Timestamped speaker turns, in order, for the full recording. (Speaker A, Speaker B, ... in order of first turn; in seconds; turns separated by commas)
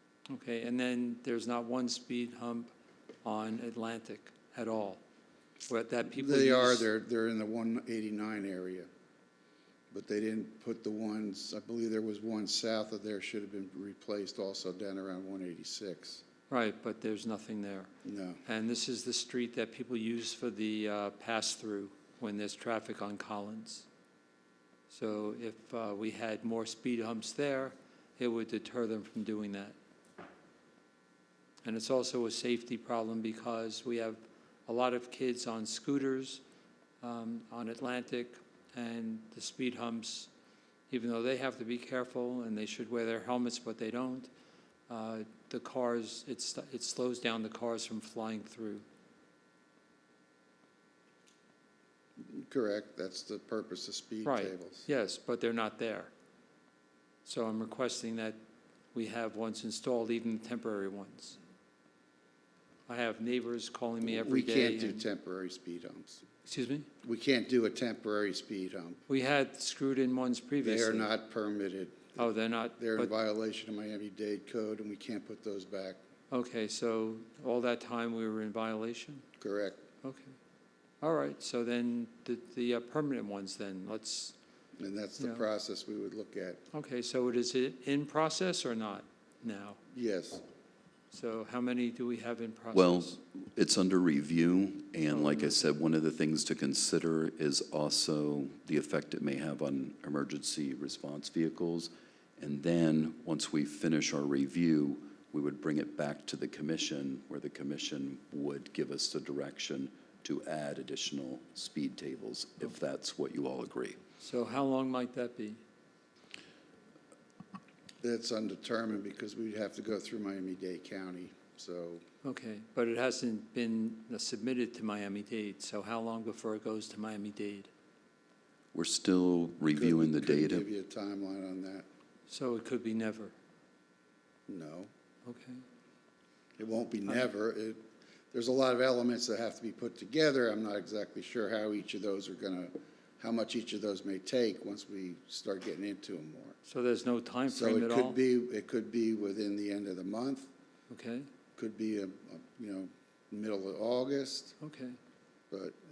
Speaker A: 0.3-2.7, Speaker A: 3.2-5.0, Speaker A: 5.7-6.9, Speaker B: 6.1-8.9, Speaker B: 9.9-16.2, Speaker A: 16.5-17.9, Speaker B: 18.0-18.4, Speaker A: 18.4-23.9, Speaker A: 24.9-29.8, Speaker A: 31.6-36.4, Speaker A: 37.0-40.3, Speaker A: 40.9-44.3, Speaker A: 44.9-48.8, Speaker B: 52.2-54.9, Speaker A: 54.2-56.1, Speaker A: 57.3-58.4, Speaker A: 58.9-61.4, Speaker A: 62.9-65.1, Speaker B: 64.0-66.2, Speaker A: 66.5-66.9, Speaker B: 67.0-69.0, Speaker A: 69.1-71.1, Speaker B: 70.6-76.0, Speaker A: 72.2-73.1, Speaker A: 76.3-79.2, Speaker B: 79.4-79.8, Speaker A: 80.0-80.3, Speaker A: 81.0-84.3, Speaker B: 84.8-86.6, Speaker A: 85.2-85.5, Speaker A: 86.7-89.8, Speaker B: 89.9-90.4, Speaker A: 91.1-93.2, Speaker C: 92.7-114.0, Speaker A: 95.1-95.6, Speaker A: 114.2-115.6, Speaker B: 118.0-122.0, Speaker A: 122.2-127.7, Speaker C: 128.7-130.7, Speaker B: 129.7-131.9, Speaker A: 132.3-133.3, Speaker B: 134.5-134.9, Speaker A: 135.2-135.6, Speaker B: 136.6-146.6, Speaker A: 146.6-148.2, Speaker B: 147.5-150.5, Speaker A: 150.9-151.3, Speaker B: 151.6-154.6, Speaker A: 154.6-155.0, Speaker B: 155.5-155.8